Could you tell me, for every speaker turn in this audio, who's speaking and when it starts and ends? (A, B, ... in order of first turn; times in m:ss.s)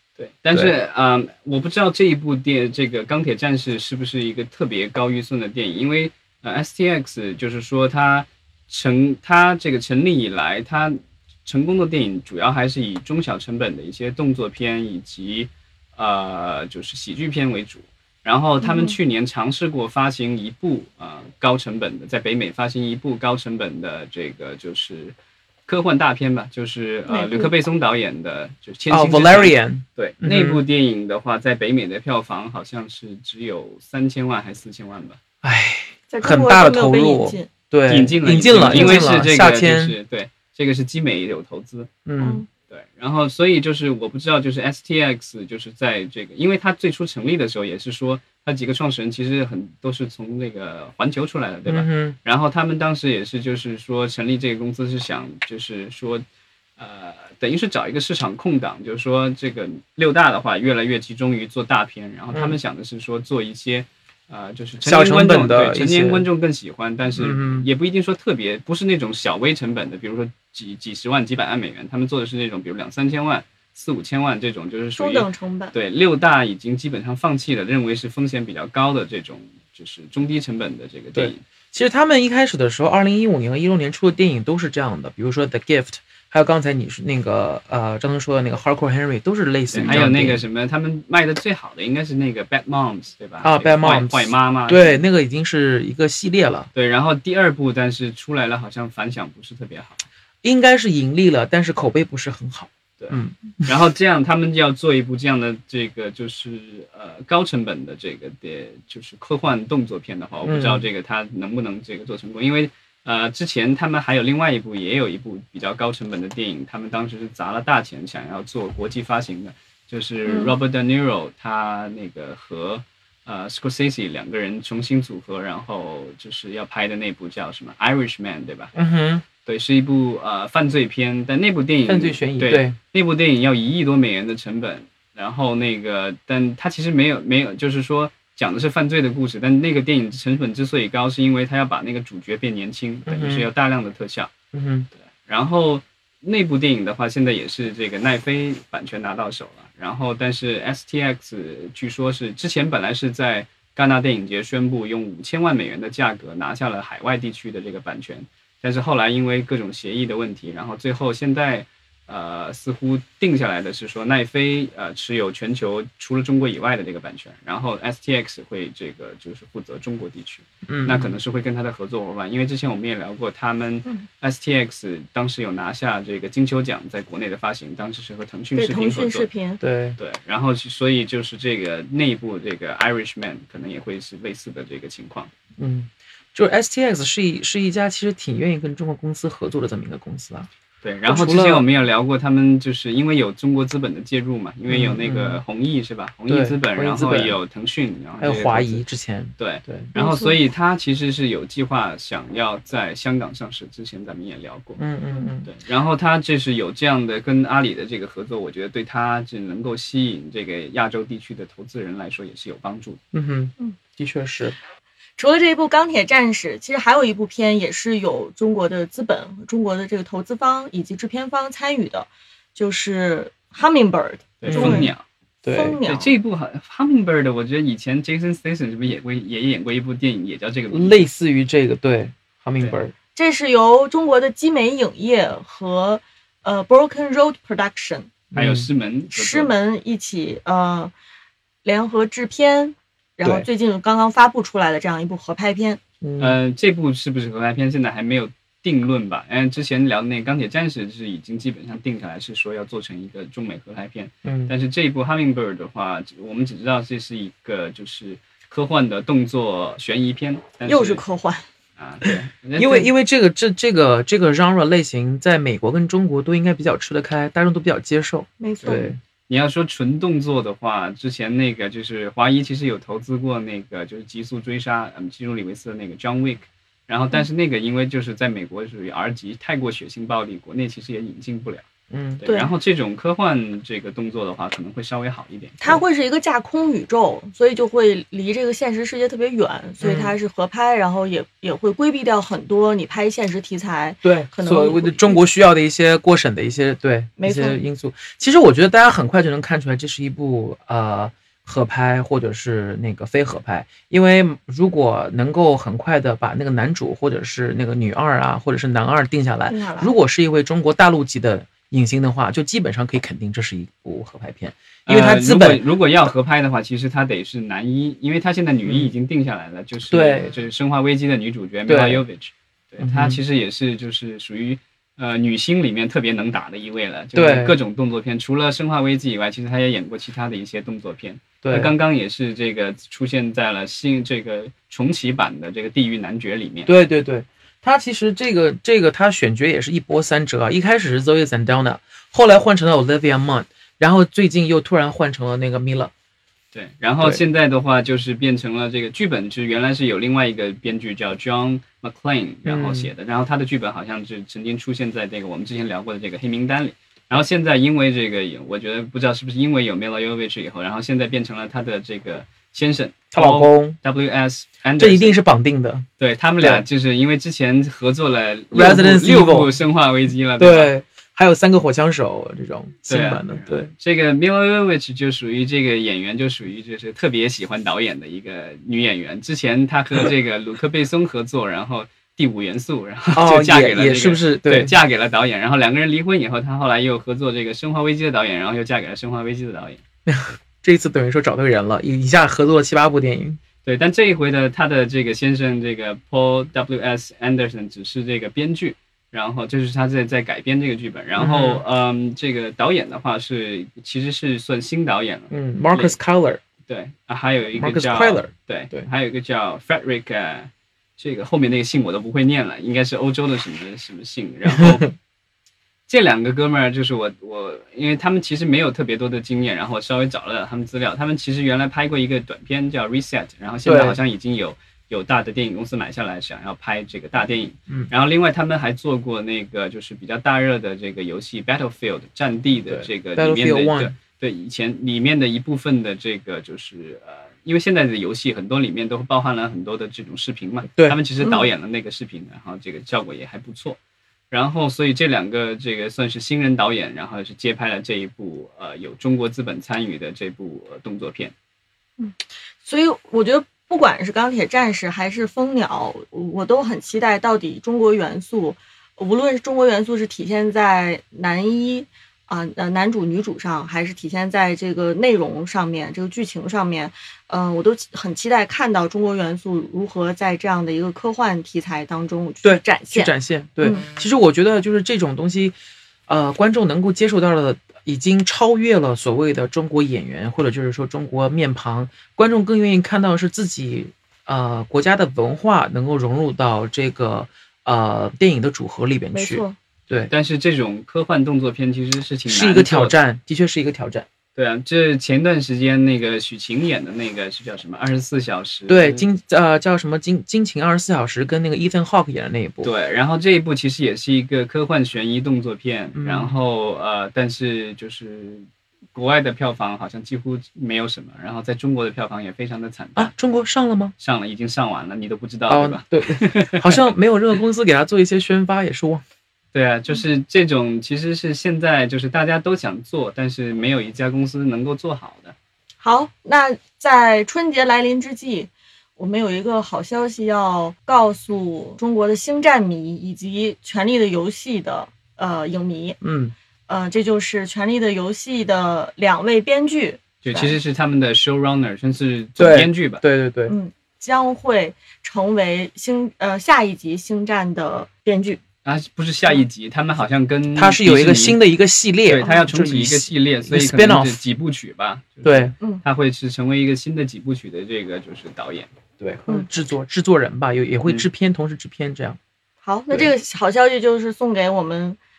0:00.2-0:25.2 A
0:18.6-0:19.0 B
0:25.7-0:35.2 A
0:27.1-0:27.5 B
0:28.9-0:30.6 C
0:35.4-0:40.0 C
0:36.1-0:37.5 B
0:37.9-0:41.9 A
0:38.6-0:39.1 B
0:42.1-0:42.4 C
0:42.2-0:42.5 B
0:42.7-0:56.2 A
0:51.7-0:52.2 C
0:56.8-1:21.4 A
1:04.8-1:06.3 C
1:07.2-1:07.7 C
1:15.0-1:15.8 B
1:21.1-1:30.4 C
1:29.7-1:35.0 A
1:33.4-1:36.7 C
1:36.7-1:40.0 A
1:40.4-1:43.7 C
1:43.0-2:08.7 A
1:50.4-1:50.9 C
2:00.2-2:00.5 B
2:08.8-2:09.2 C
2:09.4-2:24.3 A
2:11.8-2:12.8 C
2:23.1-2:23.5 C
2:24.5-2:24.9 C
2:25.2-2:59.3 A
2:50.7-2:51.2 C
2:58.6-2:59.6 B
2:59.6-3:00.0 C
3:00.0-3:05.3 A
3:05.6-3:10.5 C
3:10.8-3:18.8 A
3:11.1-3:11.7 C
3:14.7-3:15.4 C
3:16.3-3:17.4 C
3:18.2-3:19.9 C
3:19.4-3:24.8 A
3:20.0-3:20.4 B
3:24.8-3:25.5 C
3:25.5-3:33.0 A
3:33.1-3:34.6 C
3:35.2-3:44.9 B
3:44.4-3:45.0 A
3:44.5-3:45.8 C
3:45.5-3:46.2 B
3:45.8-3:51.1 A
3:50.7-3:52.9 C
3:53.2-3:58.1 B
3:58.3-3:58.7 C
3:58.4-3:59.5 A
3:59.1-4:00.9 B
4:01.6-4:05.8 B
4:06.0-4:06.4 C
4:06.2-4:21.0 A
4:14.2-4:14.5 C
4:20.6-4:21.4 B
4:21.8-4:22.9 A
4:22.6-4:29.0 C
4:28.4-4:28.9 B
4:28.6-4:41.6 A
4:41.9-4:42.2 C
4:42.2-4:45.8 A
4:42.2-4:42.5 B
4:45.6-4:55.2 B
4:49.8-4:50.2 C
4:54.0-5:15.6 C
4:57.2-4:57.6 B
5:09.5-5:10.0 B
5:14.9-5:36.7 A
5:18.7-5:18.9 C
5:19.9-5:20.3 C
5:21.7-5:22.0 C
5:22.8-5:23.2 C
5:27.1-5:27.6 C
5:31.4-5:31.7 C
5:36.7-5:45.9 C
5:46.5-6:05.2 A
5:52.5-5:52.9 C
6:03.1-6:03.8 C
6:04.8-6:05.9 C
6:06.0-6:10.7 A
6:06.4-6:06.6 C
6:08.5-6:09.5 C
6:10.4-6:13.7 C
6:12.9-6:29.8 A
6:23.1-6:24.8 C
6:30.1-6:33.4 C
6:33.6-6:46.0 A
6:41.2-6:41.6 C
6:45.3-6:46.4 C
6:46.7-6:54.9 A
6:47.5-6:48.9 C
6:55.9-7:23.8 A
7:03.6-7:04.0 C
7:12.7-7:14.0 C
7:21.2-7:21.5 B
7:24.3-7:31.3 A
7:32.0-7:53.9 B
7:52.4-7:55.6 C
7:56.1-8:10.1 C
8:09.1-8:09.6 B
8:10.1-8:13.0 A
8:12.3-8:14.1 C
8:14.4-8:19.1 A
8:18.7-8:22.7 C
8:22.6-8:33.1 A
8:26.0-8:26.4 C
8:33.0-8:34.0 C
8:34.0-8:36.9 A
8:35.5-8:39.0 C
8:39.5-8:45.4 A
8:45.8-8:56.0 B
8:56.0-8:56.3 C
8:56.7-9:00.0 B
9:00.2-9:03.0 A
9:02.4-9:03.5 C
9:03.5-9:08.4 B
9:08.6-9:11.4 A
9:10.5-9:14.2 C
9:12.1-9:18.7 A
9:15.2-9:15.6 C
9:19.0-9:22.2 C
9:22.6-9:25.0 B